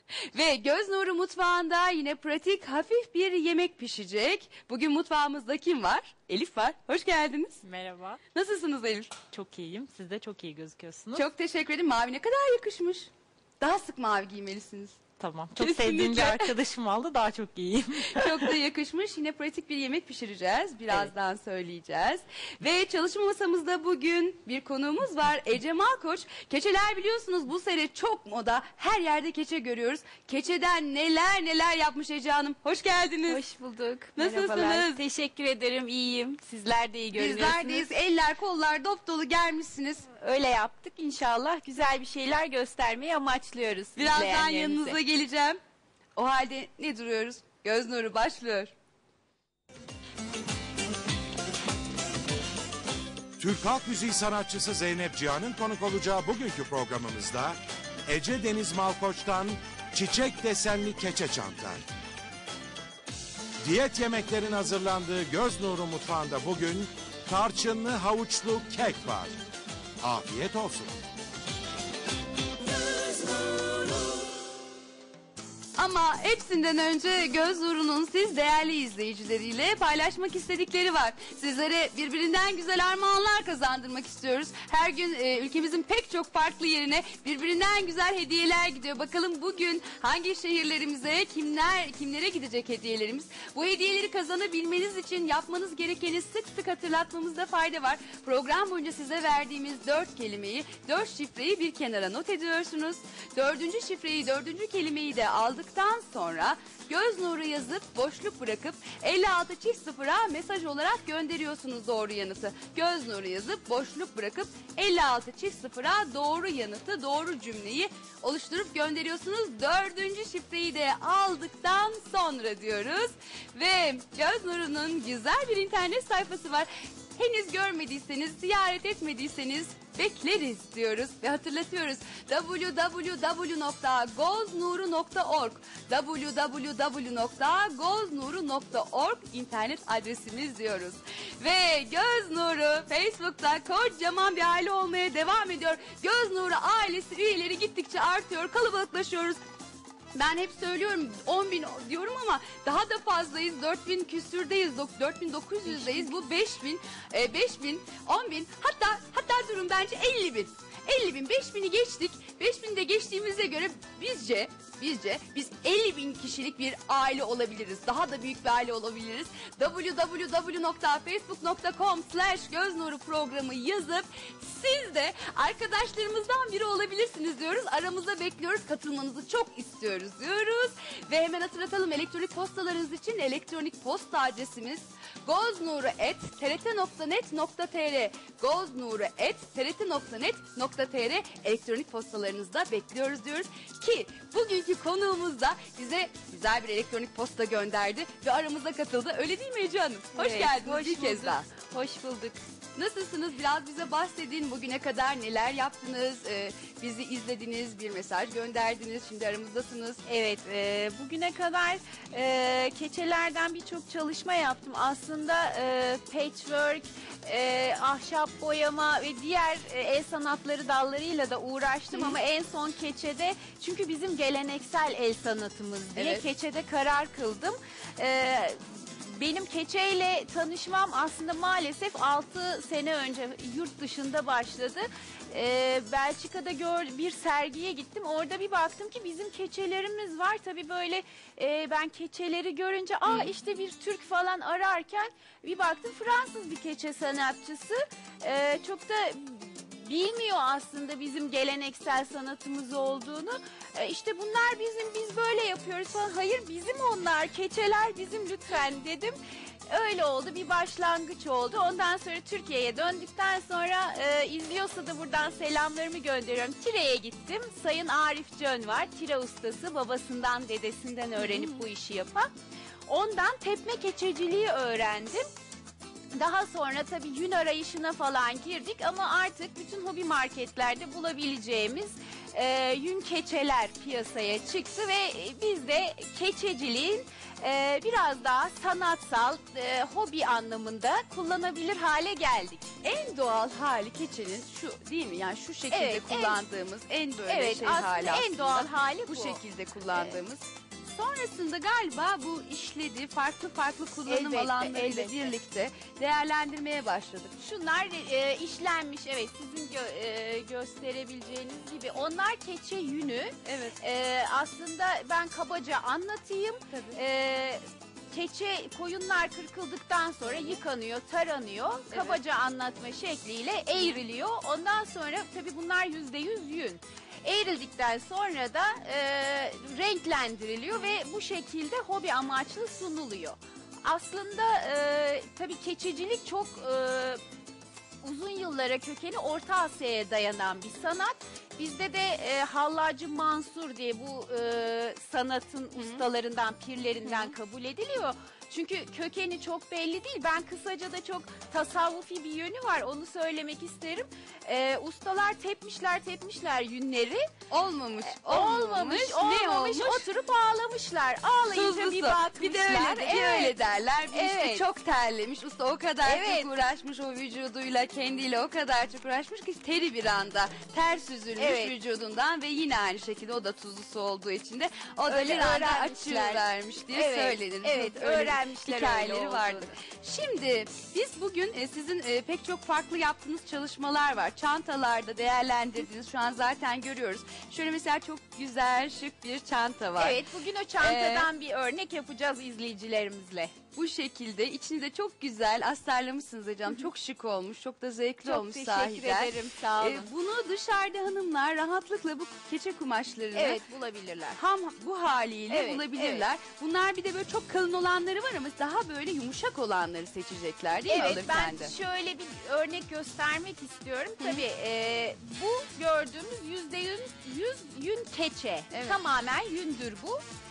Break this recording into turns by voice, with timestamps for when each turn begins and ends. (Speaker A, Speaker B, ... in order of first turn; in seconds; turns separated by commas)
Speaker A: 0.3-7.6, Speaker B: 7.6-8.2, Speaker A: 8.3-9.2, Speaker B: 9.3-11.2, Speaker A: 11.1-13.1, Speaker A: 13.6-16.5, Speaker B: 15.2-18.6, Speaker A: 18.0-33.4, Speaker C: 33.2-37.9, Speaker A: 34.2-35.0, Speaker A: 37.1-40.1, Speaker C: 40.2-45.0, Speaker A: 44.0-45.6, Speaker A: 46.2-48.7, Speaker D: 53.4-61.8, Speaker D: 63.6-69.3, Speaker D: 70.0-70.9, Speaker A: 75.8-149.4, Speaker A: 150.2-201.5, Speaker C: 155.7-156.2, Speaker C: 200.1-202.4, Speaker A: 202.8-210.0, Speaker C: 210.1-259.1, Speaker A: 225.9-226.2, Speaker C: 259.7-272.3, Speaker A: 271.2-271.6, Speaker C: 272.9-275.3, Speaker C: 276.1-292.7, Speaker A: 292.8-300.5, Speaker C: 295.7-296.4, Speaker C: 297.2-300.2, Speaker C: 301.2-301.5, Speaker A: 301.5-307.3, Speaker C: 304.1-305.3, Speaker C: 307.4-337.2, Speaker A: 313.4-313.8, Speaker A: 316.7-317.0, Speaker A: 321.9-322.2, Speaker C: 338.0-357.3, Speaker A: 345.8-346.0, Speaker A: 347.1-347.3, Speaker A: 357.5-360.1, Speaker C: 358.1-364.6, Speaker A: 361.5-390.2, Speaker C: 366.0-366.6, Speaker C: 371.4-371.8, Speaker C: 375.1-379.8, Speaker C: 389.9-393.5, Speaker A: 390.8-391.3, Speaker A: 393.8-403.6, Speaker C: 398.2-400.1, Speaker C: 403.3-404.4, Speaker A: 404.4-411.7, Speaker C: 405.5-406.2, Speaker C: 410.9-420.2, Speaker A: 418.7-419.0